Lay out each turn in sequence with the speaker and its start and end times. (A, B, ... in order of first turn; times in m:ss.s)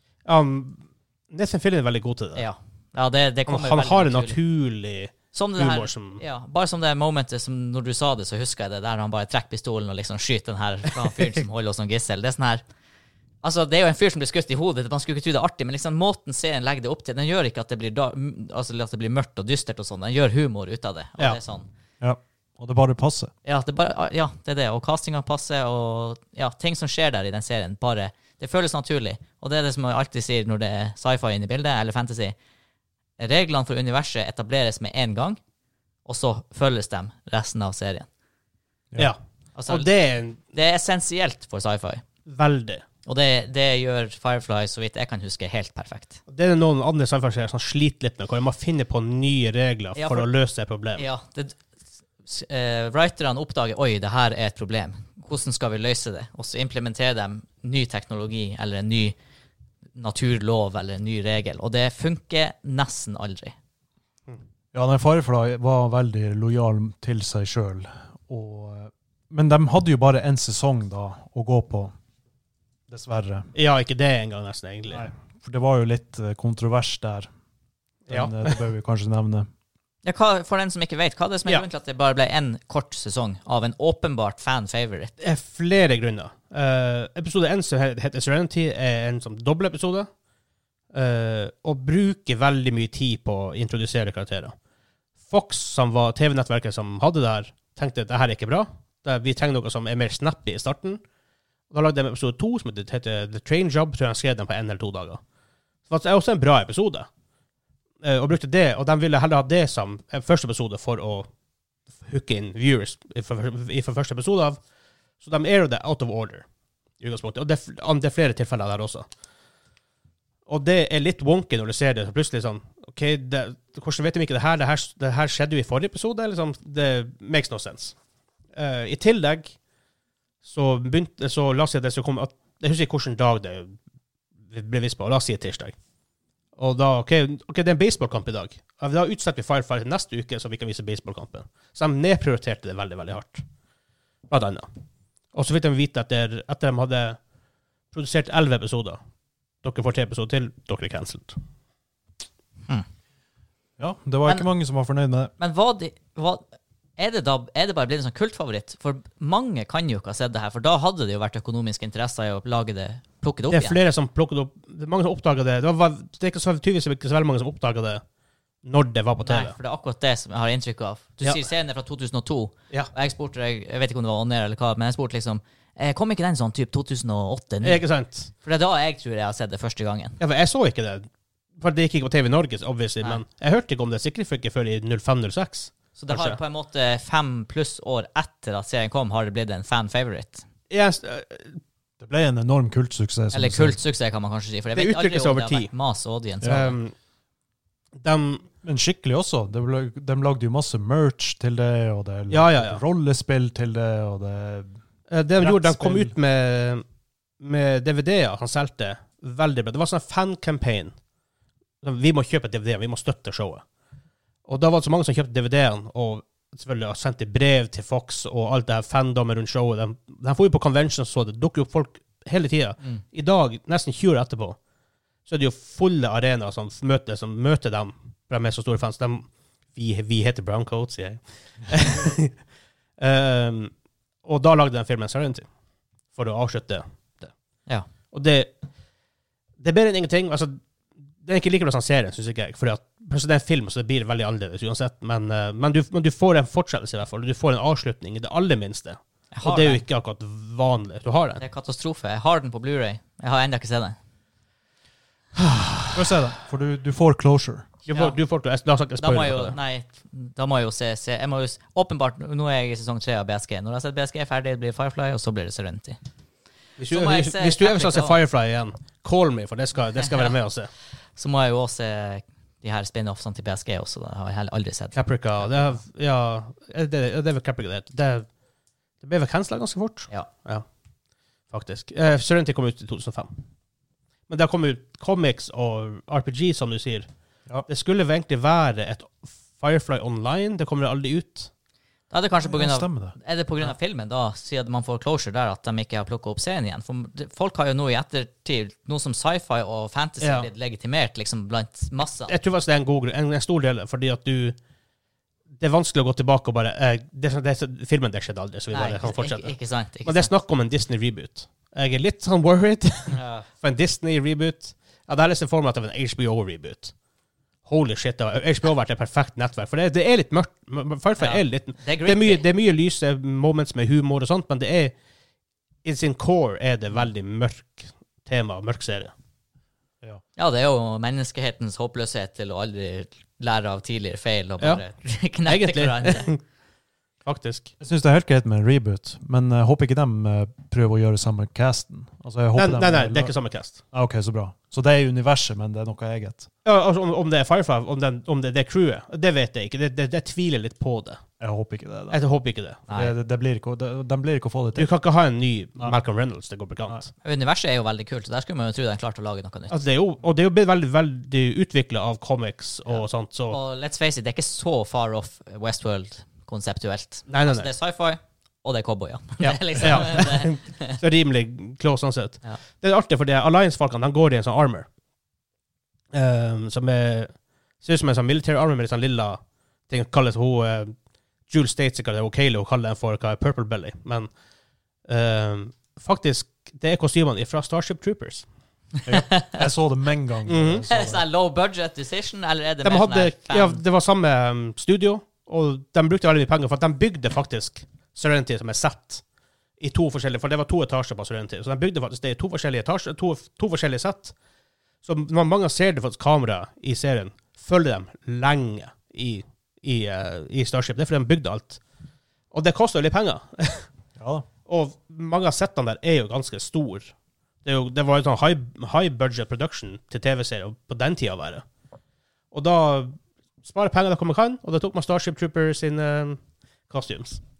0:00.2-0:02.4 A
0:02.4-0:04.4 B
0:03.5-0:06.2 A
0:05.3-0:12.6 B
0:13.4-0:21.7 B
0:22.0-0:23.3 C
0:23.4-0:32.3 B
0:33.2-0:35.4 B
0:36.0-0:38.1 B
0:39.0-0:40.4 A
0:39.6-0:39.9 B
0:40.4-0:42.0 B
0:42.3-0:42.8 A
0:43.0-0:46.2 B
0:46.3-0:51.0 A
0:50.0-0:50.3 B
0:51.0-0:51.6 B
0:52.2-0:59.1 B
0:59.9-1:03.5 B
1:04.7-1:11.9 C
1:12.9-1:13.5 C
1:13.5-1:15.1 A
1:14.9-1:17.3 C
1:18.1-1:18.5 A
1:18.1-1:19.5 C
1:20.0-1:25.1 B
1:25.2-1:30.1 A
1:30.9-1:34.5 A
1:35.3-1:41.0 A
1:41.7-1:45.2 A
1:45.9-1:47.1 A
1:48.0-1:51.3 A
1:52.0-1:54.6 A
1:55.2-1:56.4 A
1:57.0-1:59.0 A
2:00.5-2:08.0 A
2:08.6-2:09.5 A
2:10.4-2:13.8 A
2:14.5-2:15.7 A
2:16.6-2:23.4 A
2:24.3-2:24.7 A
2:25.3-2:27.2 A
2:27.9-2:29.0 A
2:29.6-2:31.4 A
2:33.8-2:35.3 C
2:35.4-2:36.4 B
2:37.0-2:43.8 B
2:43.5-2:48.0 A
2:48.6-2:49.5 A
2:49.2-3:00.2 B
2:57.6-2:58.3 A
3:00.2-3:06.4 A
3:06.0-3:10.4 B
3:10.7-3:11.6 A
3:12.0-3:13.8 C
3:13.3-3:16.7 B
3:14.7-3:15.7 A
3:16.4-3:16.9 A
3:18.0-3:18.4 A
3:18.6-3:24.8 C
3:22.3-3:22.8 A
3:25.1-3:26.8 A
3:25.4-3:26.1 C
3:27.4-3:30.9 A
3:31.8-3:33.6 A
3:34.4-3:44.6 A
3:45.2-3:52.4 A
3:53.0-3:53.7 A
3:54.2-3:55.4 A
3:56.1-3:57.3 A
3:58.1-3:58.5 A
3:59.6-4:00.6 A
4:01.2-4:11.4 A
4:09.3-4:09.8 B
4:11.4-4:14.0 B
4:15.9-4:17.7 C
4:17.9-4:19.6 A
4:17.9-4:18.2 B
4:19.0-4:26.0 B
4:26.8-4:30.7 A
4:26.9-4:28.2 B
4:31.2-4:35.8 B
4:34.9-4:38.2 A
4:39.0-4:40.6 A
4:41.5-4:43.3 A
4:44.3-4:47.1 A
4:47.7-4:51.5 A
4:52.1-5:02.3 B
4:52.4-4:53.1 C
5:00.2-5:00.5 A
5:02.3-5:04.6 A
5:05.6-5:09.5 A
5:08.7-5:10.3 B
5:10.0-5:16.9 A
5:13.1-5:13.5 B
5:17.6-5:24.9 A
5:21.2-5:22.4 B
5:25.8-5:29.1 A
5:30.4-5:36.3 B
5:35.4-5:36.4 A
5:37.2-5:37.7 A
5:37.8-5:43.3 C
5:42.5-5:43.8 A
5:43.9-5:46.5 C
5:46.6-5:51.2 A
5:51.4-5:52.2 C
5:52.1-5:52.8 A
5:52.9-5:53.1 B
5:52.9-5:54.9 C
5:54.8-5:57.1 A
5:57.2-5:59.7 B
5:59.7-6:03.6 A
6:02.9-6:11.0 B
6:07.3-6:07.7 A
6:09.4-6:14.9 A
6:16.1-6:20.9 A
6:21.5-6:24.3 A
6:25.1-6:28.4 A
6:29.0-6:31.2 C
6:29.1-6:29.6 B
6:30.5-6:30.8 A
6:30.9-6:33.8 B
6:32.8-6:39.2 A
6:39.8-6:44.3 A
6:45.0-6:51.8 A
6:52.5-6:53.9 A
6:54.2-6:54.4 C
6:54.7-6:57.1 A
6:57.6-7:01.6 A
7:02.5-7:07.4 A